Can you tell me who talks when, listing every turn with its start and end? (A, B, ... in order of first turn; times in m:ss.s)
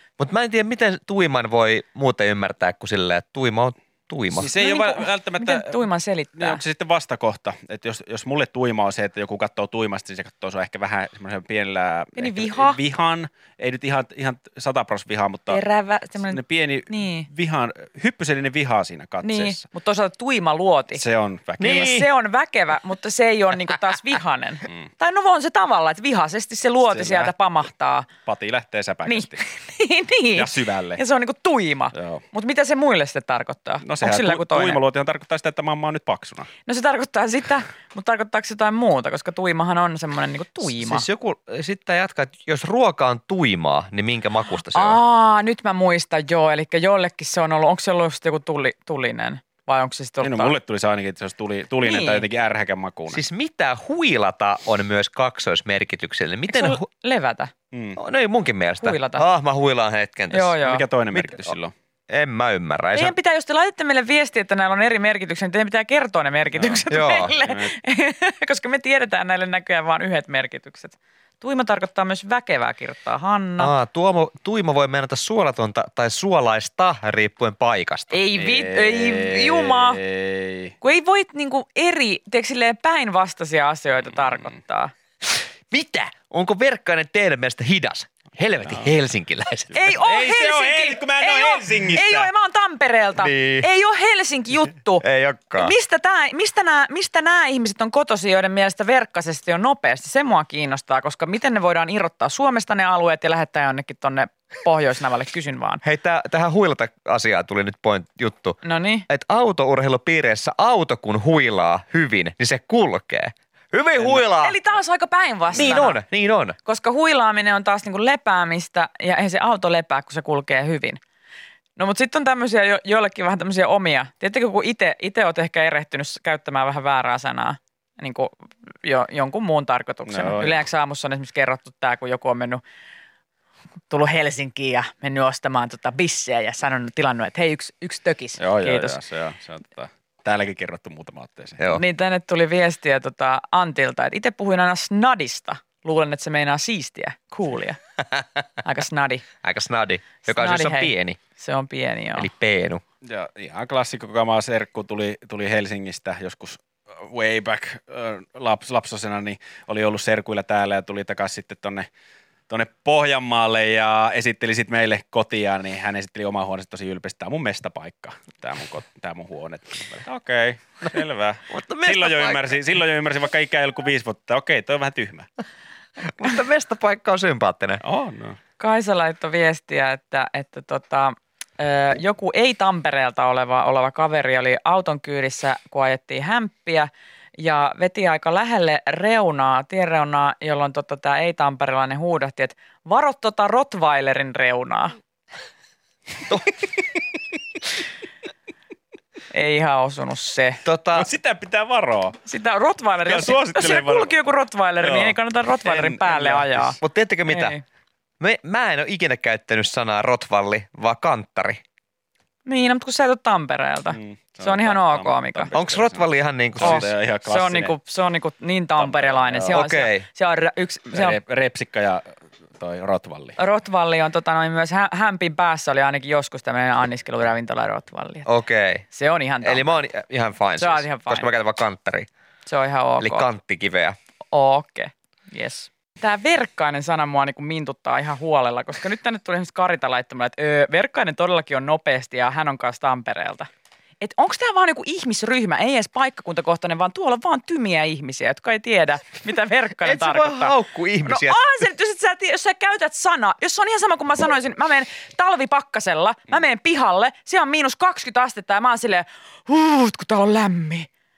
0:00.2-0:04.5 A
0:04.3-0:05.8 B
0:04.6-0:06.6 C
0:06.4-0:15.6 B
0:12.2-0:12.8 C
0:15.5-0:17.3 C
0:16.3-0:19.6 B
0:19.2-0:21.0 C
0:21.0-0:21.9 B
0:21.6-0:22.1 A
0:21.6-0:28.1 C
0:26.9-0:27.3 B
0:28.2-0:29.4 B
0:29.0-0:34.8 C
0:30.3-0:31.0 B
0:31.9-0:32.2 B
0:33.8-0:36.5 B
0:36.6-0:41.0 C
0:40.6-0:45.0 A
0:44.7-0:50.6 C
0:50.2-0:53.2 B
0:51.8-0:52.2 C
0:53.1-0:56.8 A
0:56.5-0:57.5 C
0:57.7-0:58.0 B
0:58.0-1:00.6 A
0:58.8-0:59.2 C
1:00.3-1:00.8 C
1:00.6-1:01.7 B
1:01.1-1:01.5 A
1:02.1-1:03.1 A
1:02.9-1:13.7 C
1:06.5-1:06.8 B
1:06.9-1:07.4 A
1:07.4-1:07.7 B
1:13.6-1:18.2 A
1:18.1-1:20.0 C
1:18.3-1:20.7 B
1:20.8-1:24.9 C
1:25.7-1:29.8 A
1:29.7-1:35.0 C
1:29.8-1:32.3 B
1:33.2-1:33.7 A
1:35.0-1:35.7 A
1:35.6-1:45.8 C
1:45.8-1:54.6 A
1:48.6-1:49.0 C
1:54.0-1:56.0 C
1:55.5-1:56.6 A
1:56.6-2:01.0 C
2:01.8-2:12.6 C
2:10.1-2:10.6 B
2:13.9-2:19.0 C
2:18.4-2:21.6 B
2:21.7-2:27.8 C
2:28.6-2:29.2 C
2:29.4-2:31.2 A
2:30.2-2:32.3 C
2:32.2-2:32.8 A
2:33.0-2:41.9 B
2:42.5-2:55.3 B
2:51.5-2:52.6 A
2:56.0-2:57.8 A
2:57.8-2:58.4 B
2:58.6-3:15.0 C
3:16.3-3:16.6 A
3:19.3-3:20.6 C
3:20.6-3:21.1 A
3:20.9-3:22.2 B
3:22.2-3:27.6 C
3:23.0-3:24.1 B
3:24.8-3:26.8 B
3:26.8-3:27.6 A
3:28.2-3:31.6 A
3:32.4-3:35.5 C
3:33.9-3:37.7 B
3:35.5-3:36.9 A
3:36.6-3:41.2 C
3:38.8-3:39.6 B
3:39.5-3:40.0 A
3:40.9-3:43.4 B
3:43.4-3:48.3 C
3:48.2-3:48.8 A
3:48.9-3:49.8 C
3:49.4-3:52.1 A
3:50.6-3:51.3 C
3:52.4-3:53.3 C
3:53.0-3:54.0 A
3:54.3-4:03.5 C
4:04.0-4:20.9 C
4:09.8-4:11.4 A